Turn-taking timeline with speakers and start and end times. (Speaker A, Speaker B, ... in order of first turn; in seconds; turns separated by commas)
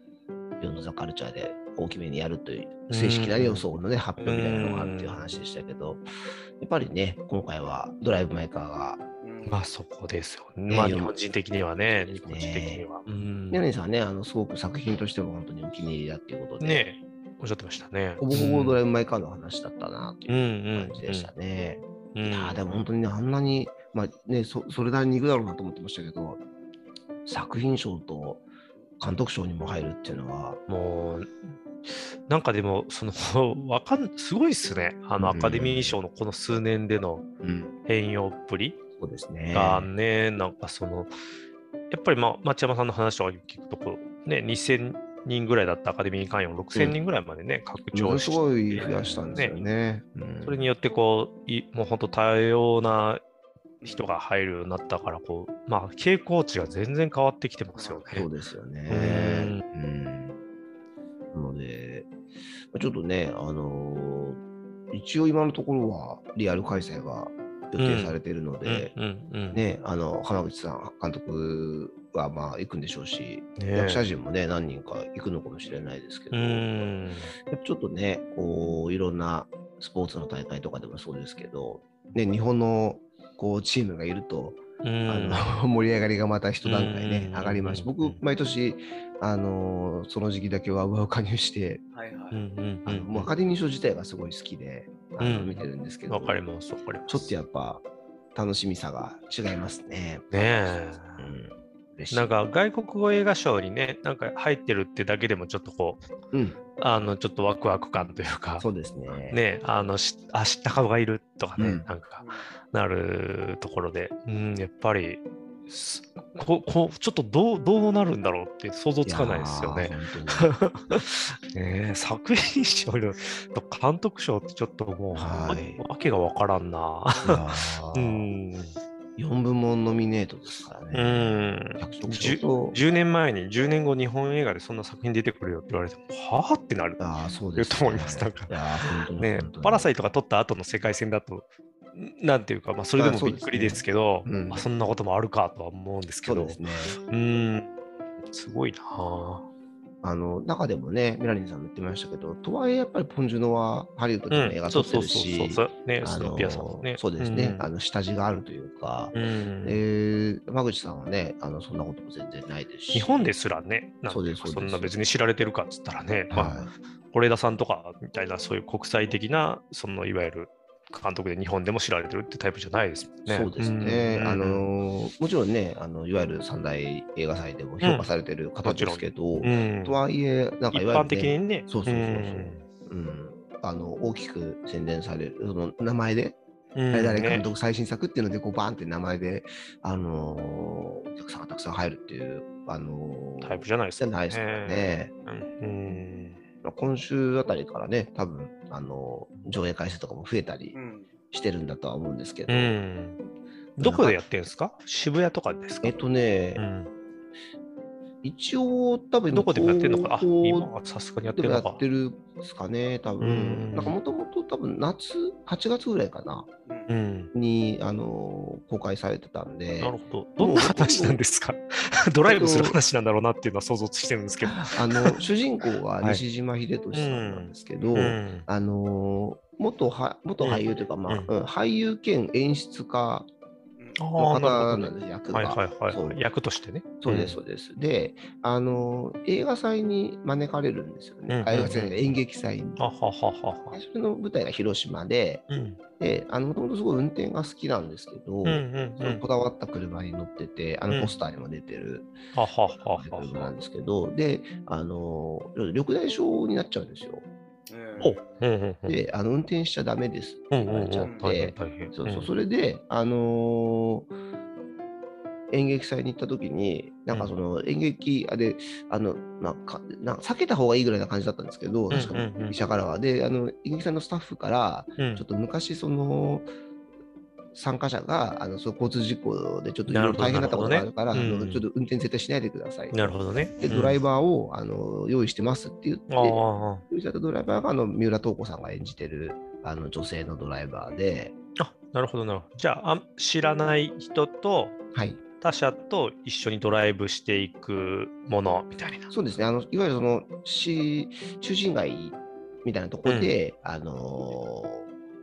Speaker A: 0.6-6.0, Speaker B: 2.9-3.6, Speaker B: 4.2-5.3, Speaker A: 6.6-9.0, Speaker C: 9.2-9.7, Speaker B: 9.4-13.6, Speaker A: 10.7-11.1, Speaker A: 12.2-12.8, Speaker A: 13.5-16.9, Speaker B: 16.6-18.8, Speaker A: 18.2-26.4, Speaker B: 20.3-21.3, Speaker B: 22.1-22.9, Speaker A: 27.2-28.4, Speaker A: 29.0-30.6, Speaker B: 30.7-37.2, Speaker A: 35.2-36.0, Speaker A: 37.4-37.7, Speaker B: 37.8-38.8, Speaker A: 39.0-39.9, Speaker B: 39.5-41.1, Speaker B: 41.9-49.5, Speaker A: 47.9-50.7, Speaker C: 48.7-49.6, Speaker B: 50.4-53.2, Speaker C: 53.8-54.1, Speaker B: 53.8-58.3, Speaker C: 57.7-58.1, Speaker A: 58.1-60.4, Speaker B: 58.9-59.6, Speaker A: 61.3-62.1, Speaker A: 62.7-64.4, Speaker A: 64.9-68.9, Speaker B: 67.8-69.6, Speaker A: 69.5-76.7, Speaker B: 73.6-74.0, Speaker B: 76.3-77.3, Speaker A: 77.4-91.8, Speaker B: 84.8-85.5, Speaker B: 86.6-88.2, Speaker C: 91.9-92.4, Speaker B: 92.3-93.3, Speaker A: 92.8-96.4, Speaker B: 95.2-97.3, Speaker A: 97.1-97.8, Speaker A: 98.3-100.3, Speaker B: 100.3-101.3, Speaker A: 101.2-102.3, Speaker B: 102.1-106.0, Speaker A: 106.3-106.6, Speaker B: 106.8-108.7, Speaker A: 108.6-109.4, Speaker B: 109.3-128.8, Speaker A: 111.6-111.8, Speaker C: 112.2-112.5, Speaker A: 119.0-120.5, Speaker A: 125.1-125.8, Speaker C: 127.1-127.4, Speaker A: 127.2-128.3, Speaker A: 129.2-132.8, Speaker B: 130.9-137.0, Speaker A: 137.0-139.9, Speaker B: 137.6-138.6, Speaker B: 139.1-147.7, Speaker A: 142.9-144.7, Speaker A: 146.2-146.9, Speaker B: 148.2-149.5, Speaker A: 150.0-163.2, Speaker B: 154.3-157.7, Speaker B: 159.1-159.8, Speaker B: 162.9-174.7, Speaker A: 164.1-164.9, Speaker A: 166.3-166.7, Speaker A: 173.3-186.4, Speaker B: 177.8-178.1, Speaker B: 178.6-180.0, Speaker B: 180.7-182.6, Speaker B: 186.8-187.5, Speaker A: 186.9-195.1, Speaker B: 193.4-196.4, Speaker A: 196.6-200.8, Speaker C: 200.7-201.1, Speaker A: 201.3-202.7, Speaker B: 202.5-203.2, Speaker B: 203.8-206.0, Speaker A: 203.8-204.2, Speaker A: 205.8-206.6, Speaker B: 206.6-206.9, Speaker A: 208.2-210.7, Speaker B: 209.3-211.8, Speaker A: 211.3-216.5, Speaker B: 213.2-213.9, Speaker B: 216.9-217.3, Speaker A: 217.3-221.2, Speaker B: 219.8-225.2, Speaker A: 222.3-222.8, Speaker A: 224.6-233.3, Speaker B: 226.9-228.5, Speaker B: 230.4-231.3, Speaker C: 233.8-234.0, Speaker B: 234.0-237.4, Speaker A: 234.2-236.2, Speaker A: 237.0-242.8, Speaker B: 241.3-242.0, Speaker B: 242.8-243.8, Speaker A: 243.7-245.4, Speaker B: 245.5-245.8, Speaker A: 246.0-252.1, Speaker B: 248.4-249.2, Speaker B: 252.3-253.5, Speaker A: 252.9-257.2, Speaker C: 257.7-258.4, Speaker B: 258.0-259.0, Speaker A: 258.9-264.1, Speaker B: 260.5-262.3, Speaker C: 261.0-261.3, Speaker A: 265.5-276.4, Speaker B: 271.9-272.6, Speaker B: 275.0-275.2, Speaker A: 277.5-291.3, Speaker B: 279.9-281.6, Speaker B: 282.9-284.0, Speaker B: 286.1-286.8, Speaker B: 291.6-294.8, Speaker A: 294.9-295.2, Speaker B: 295.4-299.1, Speaker A: 299.1-304.9, Speaker B: 303.0-303.3